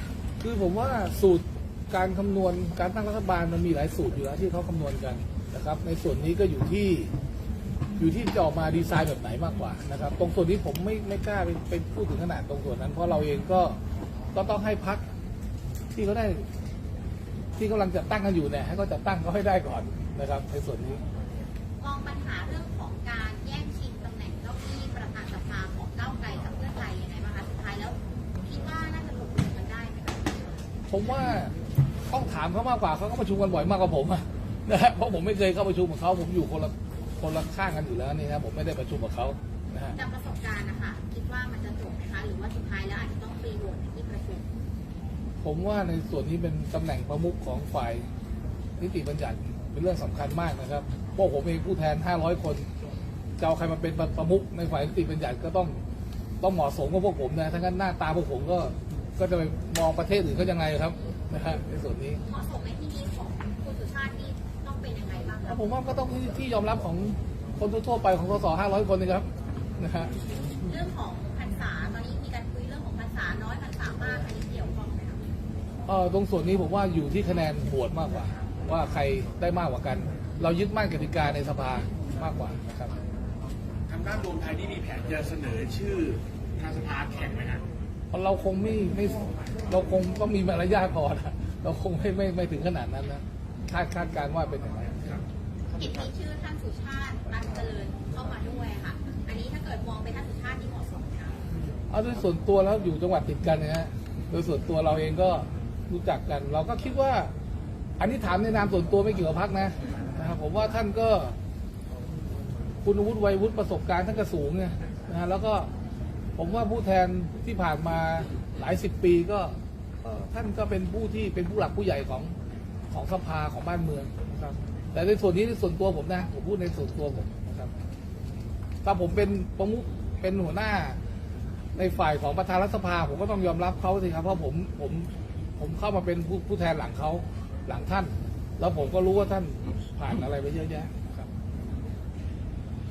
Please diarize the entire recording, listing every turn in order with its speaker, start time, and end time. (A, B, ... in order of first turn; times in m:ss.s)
0:00.4-0:07.1 A
0:08.0-0:13.8 A
0:14.3-0:15.0 A
0:15.9-0:16.5 A
0:17.6-0:21.0 A
0:21.8-0:30.6 B
0:30.9-0:31.6 A
0:32.1-0:40.0 A
0:39.9-0:44.5 B
0:45.4-0:48.0 A
0:48.8-0:52.7 A
0:53.4-0:55.8 A
0:56.4-1:02.2 A
1:02.2-1:05.6 B
1:05.5-1:10.1 A
1:10.6-1:15.3 B
1:15.9-1:23.0 A
1:23.9-1:27.6 C
1:28.1-1:35.2 A
1:35.7-1:41.5 B
1:41.9-1:47.3 A
1:48.0-1:51.4 A
1:52.8-1:55.7 A
1:56.4-2:02.4 A
2:02.9-2:07.7 A
2:08.8-2:11.0 A
2:11.8-2:21.3 A